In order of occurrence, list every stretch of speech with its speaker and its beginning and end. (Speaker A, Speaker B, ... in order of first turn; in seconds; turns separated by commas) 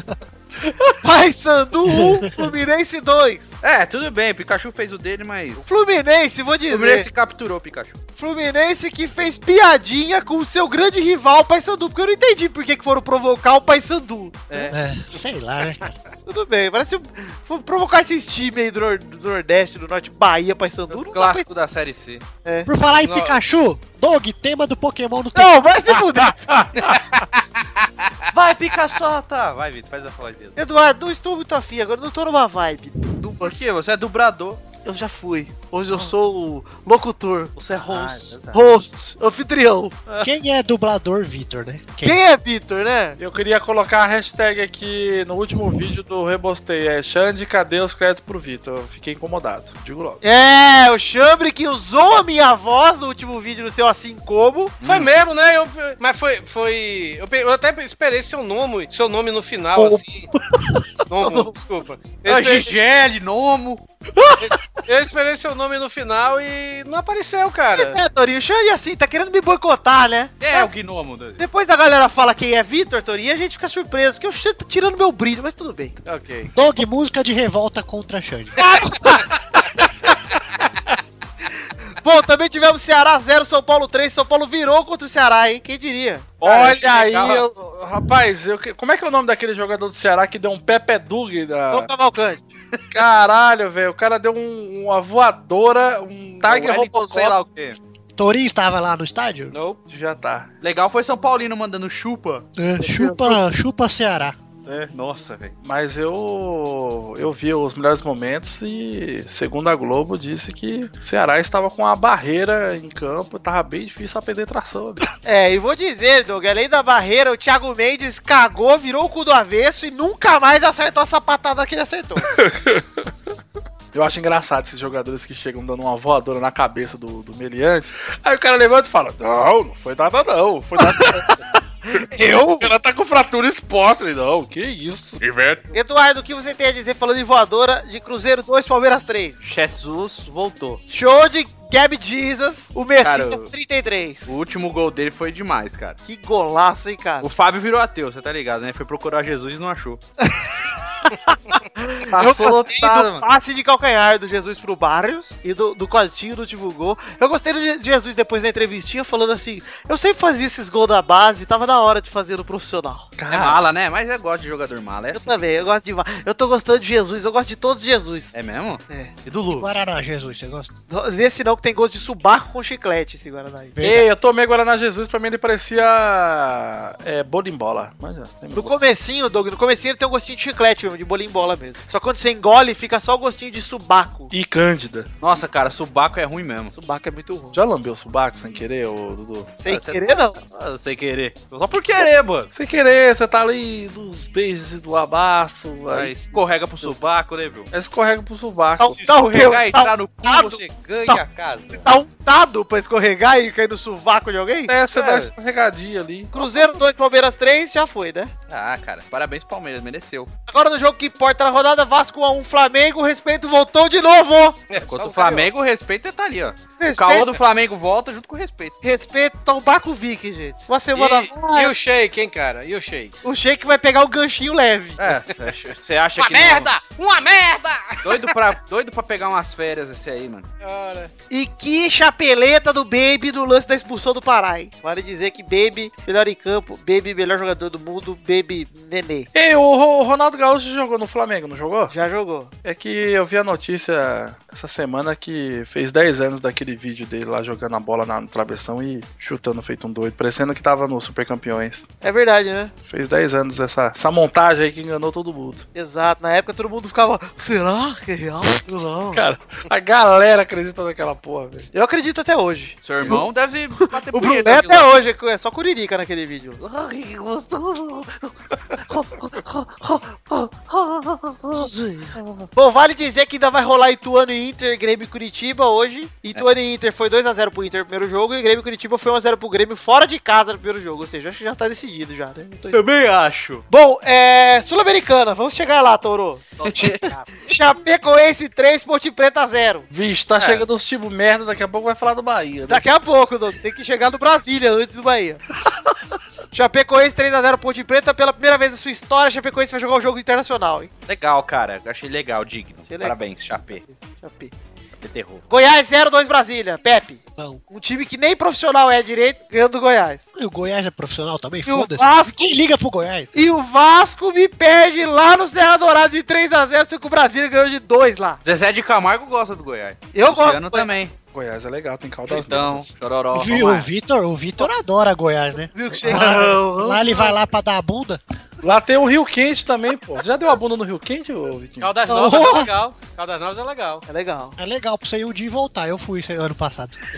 Speaker A: 0.7-0.9, Speaker B: 1.0-3.5, Speaker C: 2.0-2.4, Speaker D: 3.6-5.8, Speaker B: 5.6-7.1, Speaker D: 6.7-8.0, Speaker B: 8.2-14.7, Speaker C: 14.7-15.9, Speaker B: 16.3-21.5, Speaker D: 20.9-22.2, Speaker C: 22.6-25.5, Speaker E: 23.0-23.4, Speaker B: 25.3-26.5, Speaker D: 26.9-30.6, Speaker B: 28.7-28.9, Speaker B: 30.6-33.6, Speaker D: 33.4-34.6, Speaker B: 34.8-39.9, Speaker D: 37.6-38.6, Speaker C: 40.2-42.2, Speaker B: 42.0-43.2, Speaker A: 43.2-50.2, Speaker B: 50.2-54.8, Speaker D: 54.8-55.1, Speaker E: 54.8-60.3, Speaker A: 59.8-60.8, Speaker E: 61.1-62.7, Speaker B: 61.2-61.5, Speaker D: 62.2-63.8, Speaker A: 64.2-64.6, Speaker E: 64.5-68.0, Speaker B: 67.7-70.7, Speaker D: 70.4-71.4, Speaker B: 71.4-76.0, Speaker E: 76.0-76.5, Speaker C: 76.5-78.5, Speaker B: 78.6-79.5, Speaker B: 82.0-86.8, Speaker A: 86.4-91.9, Speaker B: 91.7-92.4, Speaker A: 92.9-97.4, Speaker D: 96.4-97.8, Speaker C: 98.2-99.5, Speaker E: 99.5-99.8, Speaker A: 99.9-100.5, Speaker D: 100.6-102.5, Speaker C: 102.6-104.4, Speaker D: 104.7-105.5, Speaker A: 105.6-115.0, Speaker B: 115.2-122.3, Speaker A: 122.3-122.8, Speaker A: 123.9-131.4, Speaker B: 131.8-132.7, Speaker A: 131.9-135.2, Speaker D: 135.2-135.6, Speaker B: 135.7-139.4, Speaker D: 139.4-140.8, Speaker B: 140.9-144.4, Speaker D: 143.0-143.5, Speaker D: 144.3-146.0, Speaker B: 146.1-147.3, Speaker D: 147.2-150.0, Speaker B: 150.2-163.1, Speaker D: 152.1-153.2, Speaker A: 163.2-163.6, Speaker D: 163.3-165.3, Speaker B: 165.1-168.3, Speaker D: 168.3-169.7, Speaker C: 169.6-170.7, Speaker B: 170.9-173.7, Speaker C: 173.7-174.1, Speaker A: 173.8-178.7, Speaker B: 178.5-184.3, Speaker A: 184.3-185.1, Speaker D: 185.2-186.7, Speaker B: 186.7-187.6, Speaker A: 187.5-189.5, Speaker B: 189.6-190.4, Speaker D: 189.7-192.5, Speaker A: 192.5-196.8, Speaker D: 195.9-197.7, Speaker A: 197.7-199.0, Speaker B: 198.8-204.7, Speaker D: 199.0-201.8, Speaker A: 204.7-206.3, Speaker D: 204.9-205.3, Speaker B: 206.3-208.3, Speaker D: 206.4-206.7, Speaker D: 208.5-210.3, Speaker B: 210.5-214.6, Speaker E: 214.7-215.5, Speaker D: 214.8-218.8, Speaker B: 216.8-217.4, Speaker B: 218.8-221.7, Speaker E: 220.9-223.2, Speaker B: 223.2-225.0, Speaker D: 225.0-226.7, Speaker E: 226.2-228.4, Speaker D: 228.0-230.5, Speaker E: 230.6-231.1, Speaker B: 231.3-239.3, Speaker A: 239.3-241.9, Speaker B: 241.9-242.5, Speaker A: 242.6-251.8, Speaker B: 252.0-252.7, Speaker A: 252.9-255.6, Speaker B: 255.7-259.2, Speaker A: 259.1-261.7, Speaker B: 261.7-268.2, Speaker D: 262.8-264.9, Speaker B: 268.9-282.8, Speaker D: 282.7-283.6, Speaker B: 283.7-289.9, Speaker D: 286.6-287.5, Speaker A: 289.9-292.9, Speaker D: 290.4-290.6, Speaker B: 292.7-295.4, Speaker B: 296.5-300.9, Speaker D: 301.1-303.8, Speaker B: 302.9-304.5, Speaker D: 305.0-305.4, Speaker B: 305.5-310.2, Speaker C: 310.3-313.3, Speaker B: 311.6-312.5, Speaker B: 313.3-318.4, Speaker D: 318.4-321.1, Speaker B: 320.1-320.9, Speaker A: 321.3-322.9, Speaker D: 322.3-323.9, Speaker C: 323.3-328.2, Speaker B: 325.7-327.3, Speaker A: 328.6-331.9, Speaker E: 331.8-334.0, Speaker B: 332.1-332.7, Speaker C: 332.1-332.6, Speaker B: 334.1-334.6, Speaker C: 334.6-337.0